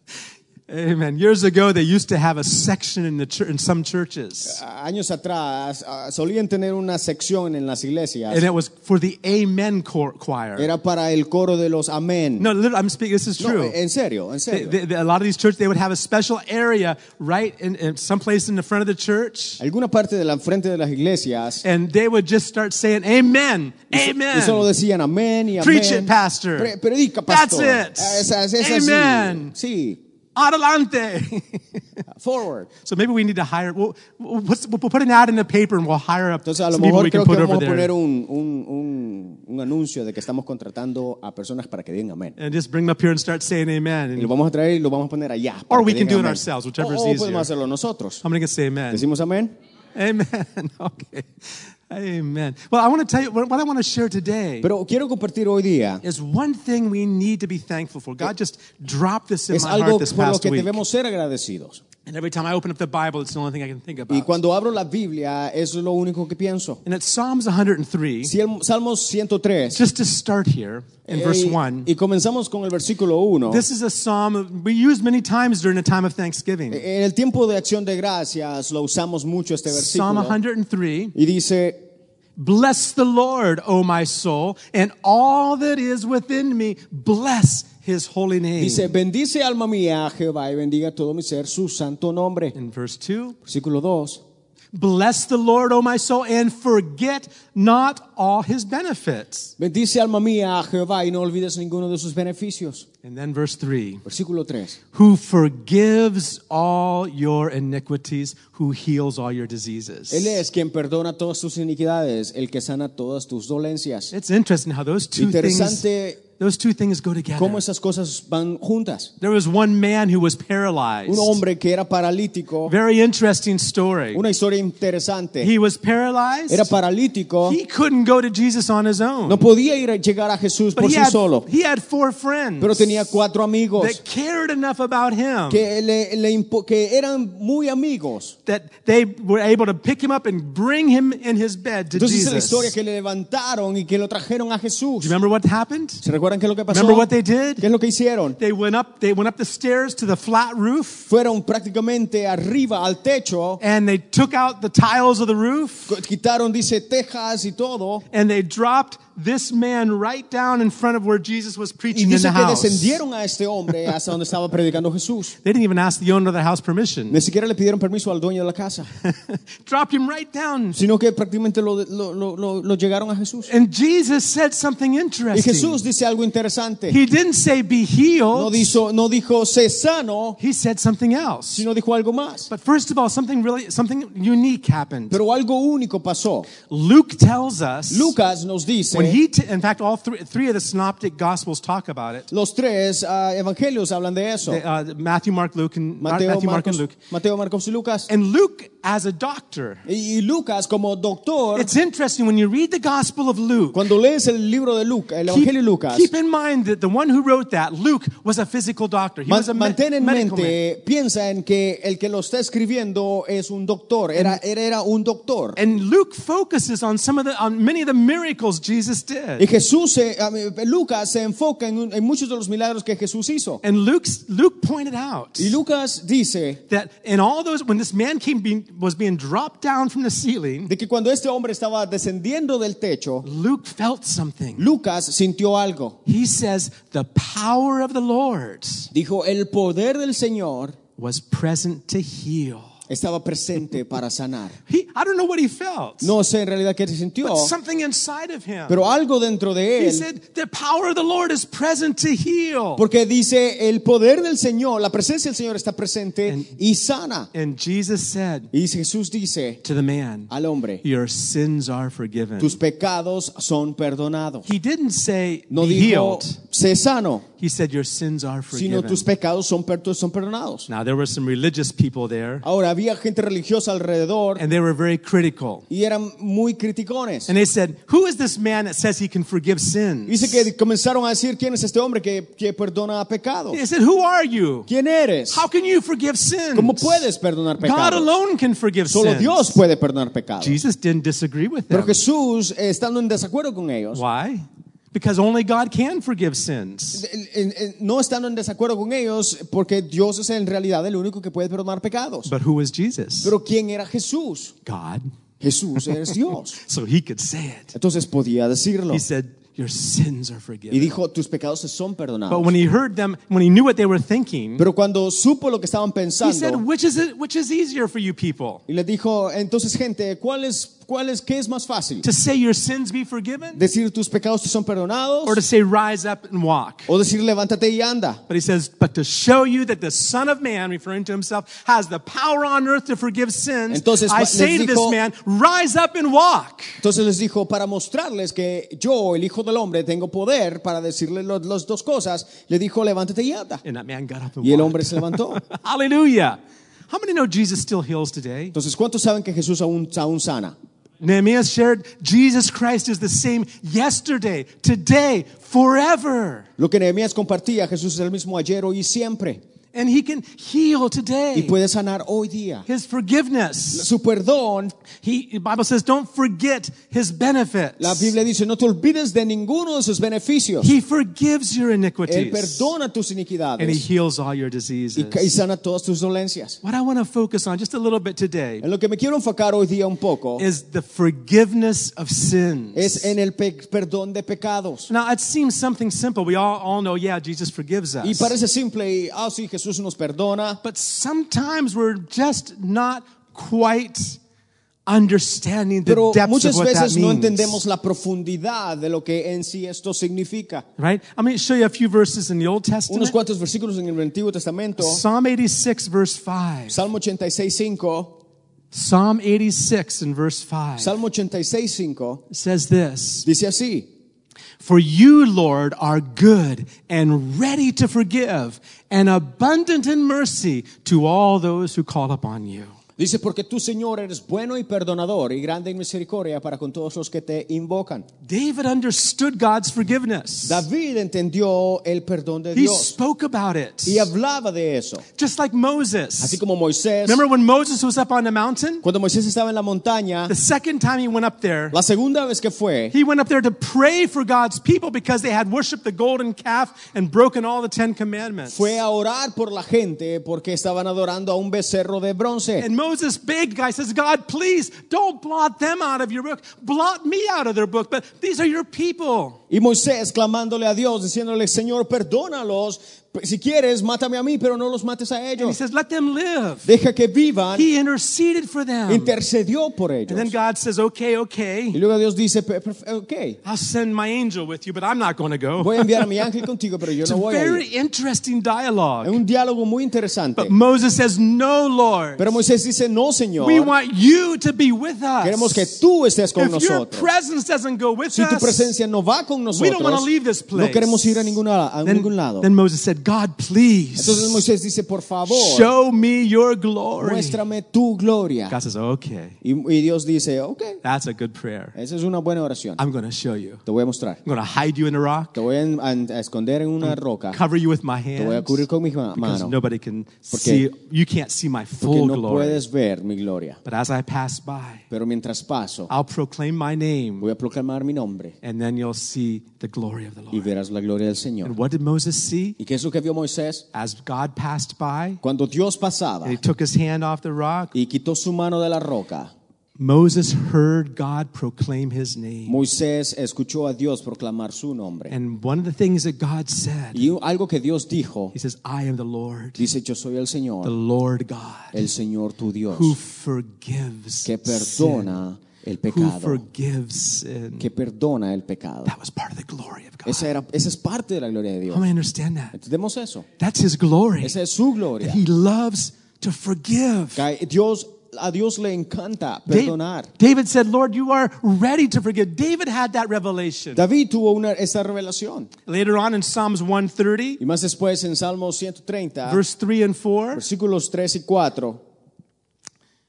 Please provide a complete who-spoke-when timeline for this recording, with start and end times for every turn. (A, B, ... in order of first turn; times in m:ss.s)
0:00.7-0:04.6 A
0:04.5-0:08.4 B
0:08.3-0:10.7 A
0:10.6-0:12.5 B
0:12.4-0:13.8 A
0:13.4-0:14.8 B
0:14.5-0:19.6 A
0:19.6-0:21.6 B
0:21.6-0:24.7 A
0:23.9-0:30.0 B
0:25.6-0:26.7 A
0:27.3-0:29.5 A
0:30.4-0:32.0 A
0:32.1-0:32.7 B
0:32.8-0:37.9 A
0:36.4-0:42.4 B
0:42.4-0:44.3 A
0:44.2-0:48.2 B
0:45.7-0:47.5 A
0:48.2-0:49.0 A
0:48.9-0:49.5 B
0:49.9-0:54.7 A
0:54.6-0:56.0 B
0:56.0-1:00.8 A
0:59.5-1:01.8 B
1:02.0-1:04.4 A
1:04.1-1:06.8 B
1:06.8-1:08.3 A
1:08.2-1:09.8 B
1:09.7-1:11.9 A
1:11.1-1:13.6 B
1:13.5-1:16.8 A
1:16.7-1:20.4 B
1:19.7-1:21.1 A
1:21.1-1:21.8 B
1:22.4-1:28.9 A
1:28.6-1:32.5 B
1:32.5-1:33.4 A
1:33.4-1:34.2 B
1:34.7-1:39.5 A
1:39.6-1:42.8 B
1:43.0-1:44.0 A
1:44.0-1:44.8 B
1:44.9-1:50.4 A
1:50.1-1:54.1 B
1:54.1-1:57.6 A
1:55.2-1:56.2 B
1:57.4-1:59.1 B
1:59.2-2:01.4 A
2:01.0-2:02.7 B
2:02.6-2:04.2 A
2:04.1-2:05.5 B
2:05.4-2:06.7 A
2:06.5-2:07.6 B
2:07.4-2:09.4 A
2:09.2-2:11.5 B
2:10.8-2:13.1 A
2:12.6-2:14.0 B
2:13.8-2:15.6 A
2:15.5-2:18.4 B
2:18.4-2:22.7 A
2:21.9-2:25.1 B
2:25.0-2:26.0 A
2:26.0-2:28.4 B
2:26.7-2:27.6 A
2:28.4-2:31.1 A
2:31.1-2:33.6 B
2:33.6-2:36.0 A
2:35.9-2:38.0 B
2:38.1-2:43.0 A
2:41.9-2:45.4 B
2:45.4-2:47.2 A
2:47.1-2:48.9 B
2:49.0-2:50.8 A
2:50.7-2:53.5 B
2:53.5-2:55.8 A
2:55.3-2:57.0 B
2:56.9-2:58.8 A
2:58.3-3:00.4 B
3:00.4-3:01.7 A
3:01.5-3:02.5 B
3:02.5-3:05.2 A
3:05.1-3:06.5 B
3:06.6-3:08.1 A
3:07.9-3:09.2 B
3:08.9-3:12.3 A
3:12.3-3:14.6 B
3:14.5-3:16.9 A
3:16.0-3:18.1 B
3:18.1-3:19.8 A
3:19.8-3:21.7 B
3:21.5-3:23.9 A
3:23.7-3:26.1 B
3:25.3-3:30.6 A
3:29.3-3:35.6 B
3:35.6-3:39.4 A
3:39.4-3:43.6 B
3:43.6-3:45.6 A
3:45.4-3:46.6 B
3:46.7-3:50.7 A
3:50.7-3:53.2 B
3:53.2-3:54.7 A
3:54.6-3:56.0 B
3:56.0-3:58.9 A
3:58.9-4:00.8 B
4:01.0-4:02.7 A
4:02.9-4:04.6 B
4:04.7-4:06.1 A
4:06.0-4:07.5 B
4:07.2-4:08.8 A
4:08.7-4:10.1 B
4:09.8-4:12.8 A
4:12.8-4:17.3 B
4:16.3-4:16.5 A
4:17.3-4:18.5 A
4:18.5-4:19.6 B
4:19.6-4:20.3 A
4:20.3-4:20.8 B
4:20.8-4:22.6 A
4:22.4-4:24.5 B
4:24.4-4:26.4 A
4:25.5-4:27.2 B
4:27.4-4:29.1 A
4:28.5-4:30.7 B
4:30.7-4:32.4 A
4:32.4-4:34.4 B
4:34.4-4:35.6 A
4:35.7-4:37.3 B
4:37.3-4:40.5 A
4:40.1-4:43.6 B
4:43.5-4:44.7 A
4:44.7-4:45.4 B
4:45.3-4:47.1 A
4:46.5-4:48.1 B
4:47.6-4:49.6 A
4:48.9-4:50.6 B
4:50.4-4:52.0 A
4:51.7-4:54.0 B
4:53.9-4:57.0 A
4:56.9-5:02.3 B
5:02.2-5:03.3 A
5:03.2-5:04.5 B
5:04.6-5:05.1 A
5:05.4-5:06.6 B
5:05.9-5:07.7 A
5:07.7-5:09.0 B
5:08.9-5:10.9 A
5:10.7-5:12.5 B
5:12.3-5:14.6 A
5:14.6-5:16.6 B
5:16.2-5:18.6 A
5:18.7-5:22.0 B
5:22.0-5:23.6 A
5:23.5-5:25.4 B
5:25.2-5:26.9 A
5:26.9-5:28.2 B
5:28.3-5:36.8 A
5:33.7-5:35.0 B
5:36.8-5:43.6 B
5:43.6-5:46.4 A
5:44.4-5:45.4 B
5:46.9-5:48.5 A
5:48.5-5:50.5 B
5:51.0-5:56.5 A
5:56.6-5:59.4 B
5:59.7-6:01.6 A
6:01.3-6:02.7 B
6:02.7-6:03.9 A
6:03.7-6:04.7 B
6:05.0-6:08.1 A
6:07.8-6:10.7 B
6:10.6-6:12.7 A
6:12.1-6:13.8 B
6:13.6-6:15.4 A
6:15.0-6:16.6 B
6:16.6-6:18.6 A
6:18.6-6:20.4 B
6:20.4-6:23.1 A
6:22.7-6:24.9 B
6:24.9-6:28.3 A
6:28.0-6:30.6 B
6:30.6-6:34.2 A
6:34.9-6:37.6 A
6:35.8-6:40.6 B
6:40.8-6:43.1 A
6:42.9-6:45.0 B
6:44.8-6:46.8 A
6:46.7-6:48.1 B
6:48.7-6:50.9 A
6:50.8-6:52.2 B
6:52.3-6:53.2 A
6:53.2-6:53.9 B
6:54.6-7:02.8 A
7:03.0-7:08.0 B
7:08.2-7:10.6 A
7:10.4-7:12.9 B
7:12.5-7:14.1 A
7:13.8-7:15.0 B
7:15.2-7:16.4 A
7:16.2-7:17.2 B
7:17.0-7:18.8 A
7:18.8-7:20.3 B
7:20.3-7:21.8 A
7:21.7-7:22.9 B
7:22.9-7:28.8 A
7:28.5-7:32.7 B
7:32.6-7:39.4 A
7:39.5-7:45.6 B
7:45.4-7:46.7 A
7:46.6-7:47.7 B
7:47.5-7:49.1 A
7:48.9-7:50.3 B
7:50.1-7:51.8 A
7:51.7-7:53.4 B
7:53.4-7:56.4 A
7:55.6-7:57.6 B
7:57.0-7:59.2 A
7:59.0-8:00.5 B
8:00.4-8:02.3 A
8:02.2-8:03.7 B
8:03.4-8:05.7 A
8:05.2-8:07.1 B
8:06.4-8:08.7 A
8:08.1-8:12.5 B
8:09.5-8:14.4 A
8:14.0-8:15.7 B
8:15.3-8:17.4 A
8:17.0-8:18.6 B
8:18.5-8:19.4 A
8:19.4-8:20.8 B
8:20.8-8:21.8 A
8:21.7-8:22.8 B
8:22.8-8:23.6 A
8:23.6-8:24.2 B
8:24.2-8:25.4 A
8:25.3-8:27.4 B
8:26.8-8:32.6 A
8:28.2-8:29.6 B
8:30.3-8:30.6 B
8:31.8-8:33.6 B
8:33.6-8:34.8 A
8:34.9-8:35.9 B
8:35.9-8:37.3 A
8:37.2-8:38.4 B
8:38.4-8:40.5 A
8:40.3-8:41.5 B
8:41.4-8:42.6 A
8:42.6-8:43.6 B
8:43.7-8:45.2 A
8:45.2-8:46.4 B
8:46.2-8:47.7 A
8:47.7-8:49.3 B
8:49.8-8:52.6 A
8:52.5-8:55.1 B
8:55.1-8:57.1 A
8:56.9-8:58.3 B
8:58.3-8:59.7 A
8:59.6-9:00.7 B
9:00.6-9:01.8 A
9:01.7-9:03.0 B
9:02.7-9:05.2 A
9:04.2-9:06.4 B
9:05.9-9:07.7 A
9:07.6-9:08.9 B
9:08.8-9:10.3 A
9:10.0-9:11.9 B
9:11.7-9:12.5 A
9:12.5-9:13.2 B
9:13.4-9:14.3 A
9:14.2-9:15.2 B
9:15.0-9:17.2 A
9:17.1-9:20.1 B
9:19.5-9:23.8 A
9:23.7-9:25.5 B
9:25.6-9:27.4 A
9:27.4-9:29.4 B
9:29.2-9:30.4 A
9:30.3-9:31.8 B